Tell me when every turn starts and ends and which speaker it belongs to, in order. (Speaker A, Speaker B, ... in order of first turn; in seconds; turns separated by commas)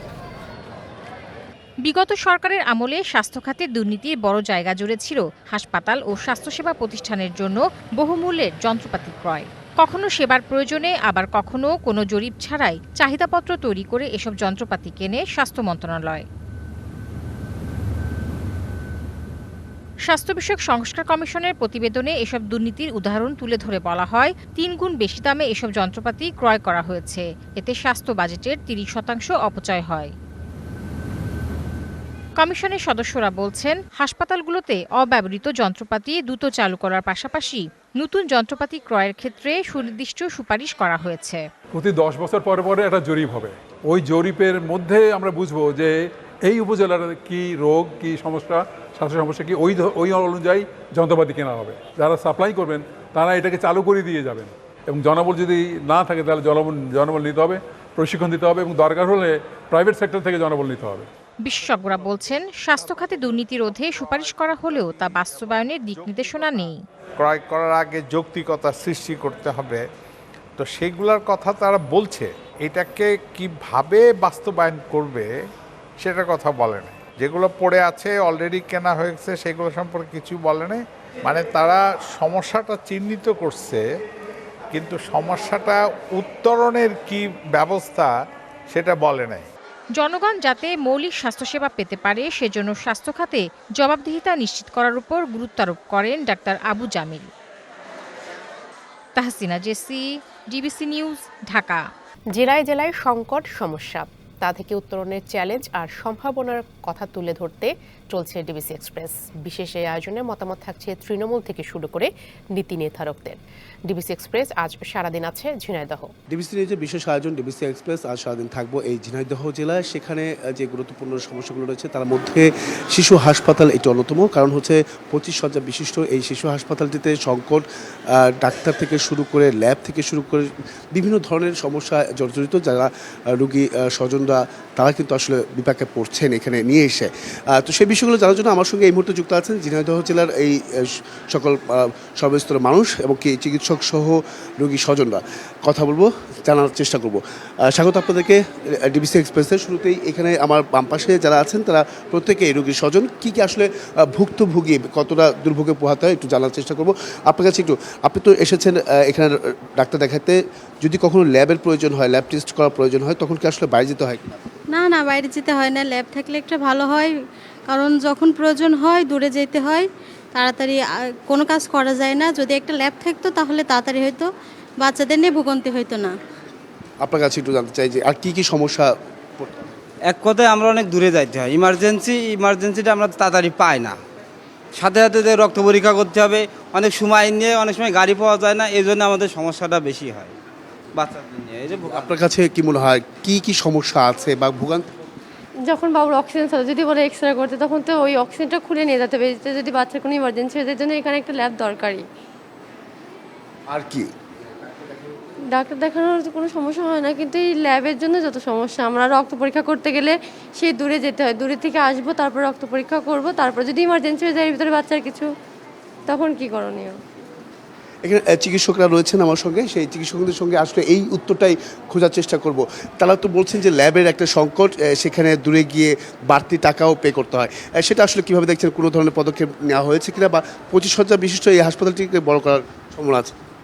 Speaker A: 1.9-16.3, Speaker A: 20.1-30.1, Speaker A: 32.4-41.4, Speaker B: 41.8-46.0, Speaker B: 46.5-61.1, Speaker A: 61.4-66.8, Speaker C: 67.2-69.8, Speaker C: 70.6-75.3, Speaker C: 76.0-83.8, Speaker C: 84.7-88.2, Speaker C: 88.7-89.5, Speaker A: 90.0-97.3, Speaker A: 99.2-101.8, Speaker D: 102.3-116.1, Speaker E: 116.3-164.3, Speaker F: 164.7-167.1, Speaker F: 167.7-174.3, Speaker F: 174.8-176.2, Speaker E: 177.0-179.6, Speaker G: 180.1-184.0, Speaker G: 184.8-190.3, Speaker G: 191.0-192.1, Speaker E: 191.9-194.9, Speaker H: 195.7-202.1, Speaker E: 203.7-204.1, Speaker H: 205.5-215.3, Speaker H: 216.1-217.0, Speaker E: 218.1-233.3